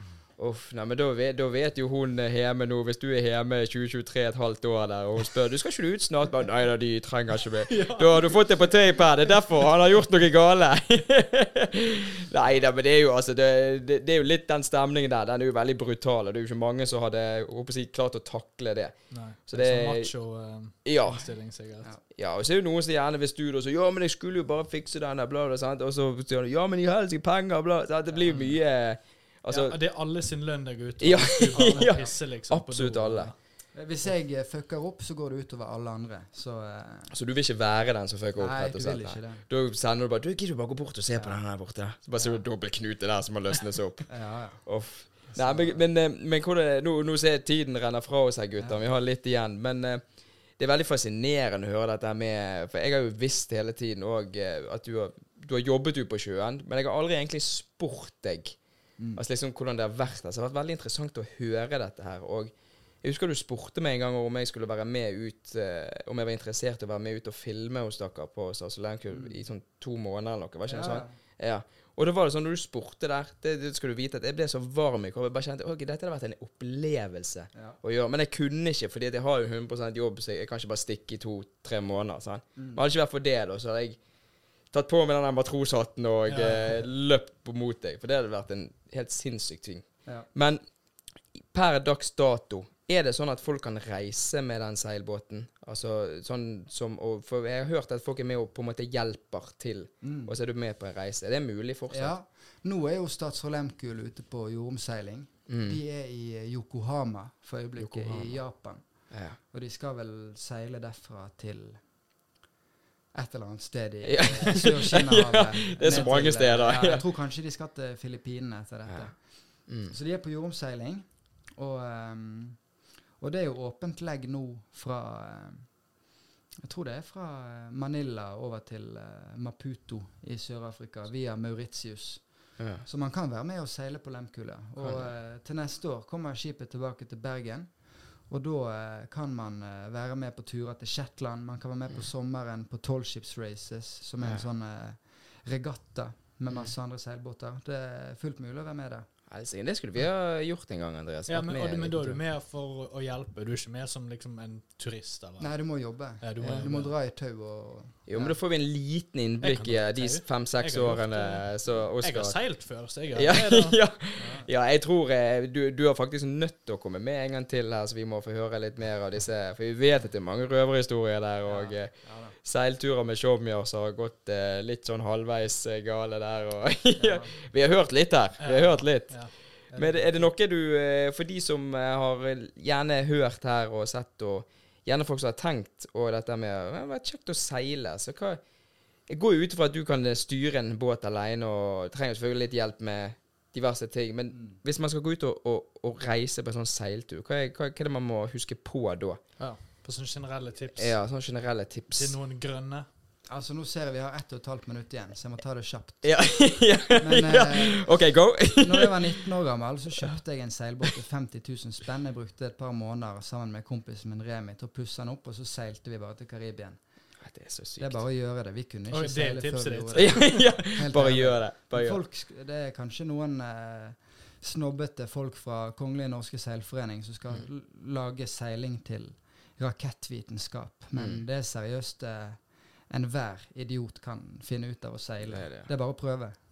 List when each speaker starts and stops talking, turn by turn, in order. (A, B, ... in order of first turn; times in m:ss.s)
0:00.4-0:19.0 A
0:07.7-0:09.2 B
0:19.1-0:21.9 B
0:19.5-0:20.1 A
0:20.8-0:21.2 A
0:22.1-0:29.8 A
0:28.2-0:28.5 C
0:29.5-0:33.3 B
0:31.0-0:33.3 A
0:31.5-0:32.1 C
0:33.7-0:37.1 C
0:37.1-0:44.1 A
0:38.4-0:39.4 C
0:44.1-0:44.6 C
0:44.6-0:50.0 A
0:45.3-0:45.8 C
0:50.6-0:58.6 A
0:59.2-1:24.0 A
1:10.7-1:11.1 C
1:22.6-1:22.8 C
1:24.7-1:30.6 A
1:26.3-1:26.8 B
1:31.3-1:42.1 A
1:40.0-1:40.3 C
1:41.9-1:48.8 C
1:45.5-1:45.8 A
1:47.8-1:48.4 A
1:49.1-1:49.4 A
1:49.5-1:51.8 C
1:53.1-1:59.2 C
1:54.0-1:57.0 A
1:55.8-1:56.3 B
1:59.7-1:59.9 A
1:59.8-2:02.6 C
2:03.2-2:05.6 C
2:06.6-2:12.2 C
2:12.6-2:12.8 A
2:12.8-2:17.7 C
2:14.8-2:15.1 A
2:18.3-2:29.0 C
2:29.3-2:32.2 A
2:31.3-2:35.5 B
2:35.4-2:38.4 C
2:36.2-2:36.9 B
2:36.4-2:36.7 A
2:38.1-2:42.4 A
2:39.4-2:41.5 B
2:42.0-2:43.8 B
2:43.1-3:08.4 A
2:44.2-2:44.5 C
2:51.5-2:52.3 C
2:57.0-2:57.3 C
2:58.4-3:00.2 B
3:09.1-3:19.2 A
3:14.3-3:14.6 C
3:19.4-3:20.9 B
3:20.8-3:22.2 A
3:22.0-3:22.9 B
3:23.3-3:26.2 C
3:26.0-3:29.2 A
3:27.0-3:27.9 C
3:28.5-3:36.8 C
3:37.2-3:38.0 A
3:37.8-3:56.4 C
3:38.9-3:40.4 B
3:39.9-3:42.0 A
3:50.9-3:51.2 A
3:55.3-3:55.7 A